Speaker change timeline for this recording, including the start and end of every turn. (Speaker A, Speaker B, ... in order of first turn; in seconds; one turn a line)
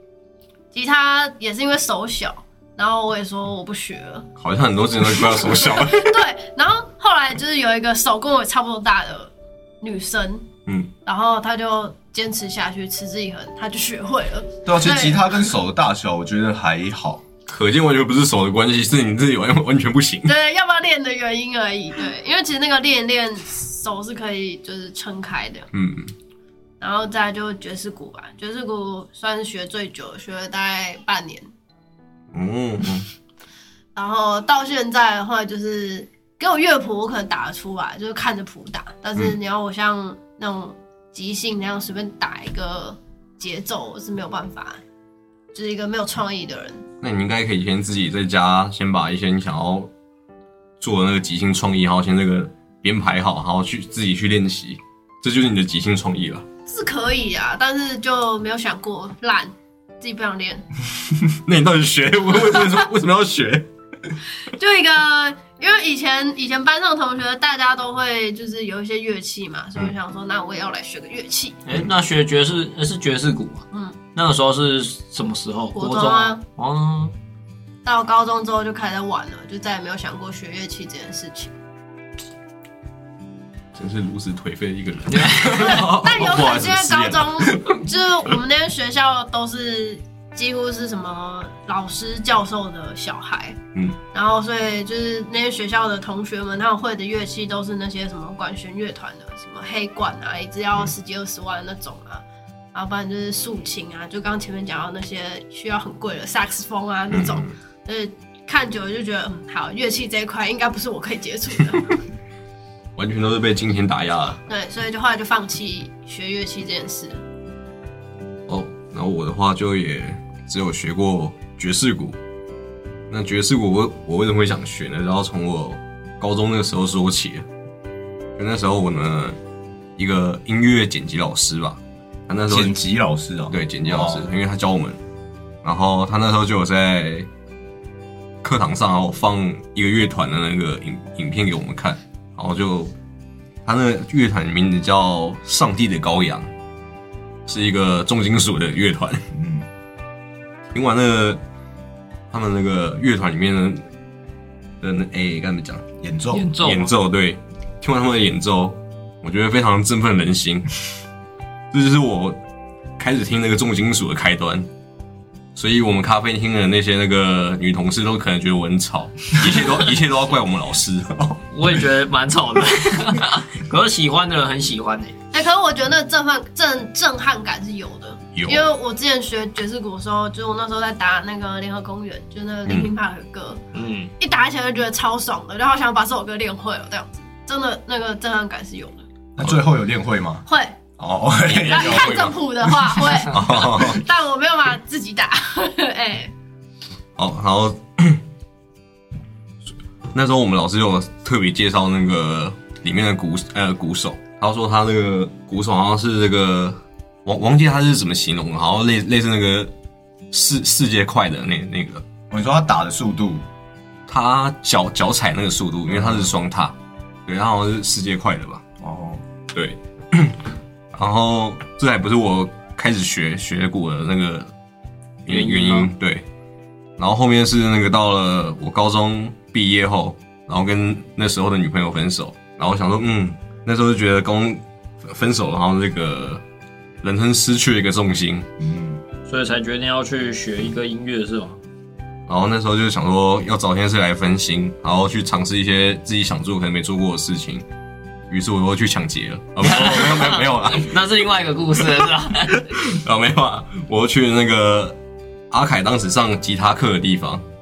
Speaker A: 0.7-4.3
Speaker B: 4.4-6.2
Speaker A: 5.3-10.4
Speaker A: 11.1-15.4
Speaker C: 14.7-17.2
Speaker B: 17.5-20.3
Speaker A: 20.2-25.7
Speaker B: 25.7-26.1
Speaker A: 26.8-31.4
Speaker B: 32.3-33.1
Speaker A: 34.0-44.8
Speaker A: 45.5-46.8
Speaker B: 47.0-49.9
Speaker B: 50.8-56.4
Speaker A: 56.6-60.6
Speaker B: 61.4-63.7
Speaker A: 64.5-71.6
Speaker D: 71.7-77.1
Speaker A: 75.7-76.4
Speaker A: 77.8-81.5
Speaker B: 83.7-87.8
Speaker D: 85.1-85.8
Speaker A: 85.5-93.6
Speaker A: 94.1-102.2
Speaker A: 102.7-112.0
Speaker B: 107.1-107.5
Speaker B: 113.0-114.4
Speaker A: 114.5-117.2
Speaker B: 118.5-122.2
Speaker B: 123.1-127.5
Speaker B: 128.3-129.4
Speaker B: 130.0-132.8
Speaker C: 132.5-134.3
Speaker B: 133.5-135.0
Speaker B: 135.6-137.3
Speaker B: 138.4-142.9
Speaker B: 143.6-146.5
Speaker B: 147.4-149.2
Speaker C: 149.3-149.7
Speaker B: 150.7-151.4
Speaker B: 152.3-153.8
Speaker B: 154.8-155.8
Speaker C: 156.0-156.5
Speaker D: 156.3-156.9
Speaker B: 156.6-160.7
Speaker B: 161.7-162.4
Speaker B: 163.0-164.7
Speaker B: 165.6-171.4
Speaker D: 171.5-175.1
Speaker A: 175.3-183.6
Speaker B: 178.3-178.7
Speaker B: 182.7-182.9
Speaker D: 183.7-184.1
Speaker A: 184.2-189.0
Speaker C: 189.4-190.4
Speaker A: 190.5-190.8
Speaker C: 191.0-192.3
Speaker B: 191.5-192.3
Speaker A: 191.6-196.3
Speaker B: 193.3-194.0
Speaker B: 197.2-198.2
Speaker B: 200.1-209.7
Speaker B: 210.3-212.0
Speaker C: 212.3-213.4
Speaker B: 214.1-216.8
Speaker C: 215.9-216.2
Speaker B: 217.3-218.6
Speaker C: 218.8-219.2
Speaker B: 219.5-220.4
Speaker B: 220.9-224.5
Speaker B: 225.2-226.2
Speaker D: 225.3-225.9
Speaker B: 227.0-236.4
Speaker B: 237.0-238.5
Speaker C: 238.6-239.0
Speaker D: 239.2-241.6
Speaker B: 242.3-247.6
Speaker B: 248.3-250.9
Speaker C: 249.6-250.9
Speaker D: 249.7-252.6
Speaker B: 252.6-255.0
Speaker B: 255.5-257.4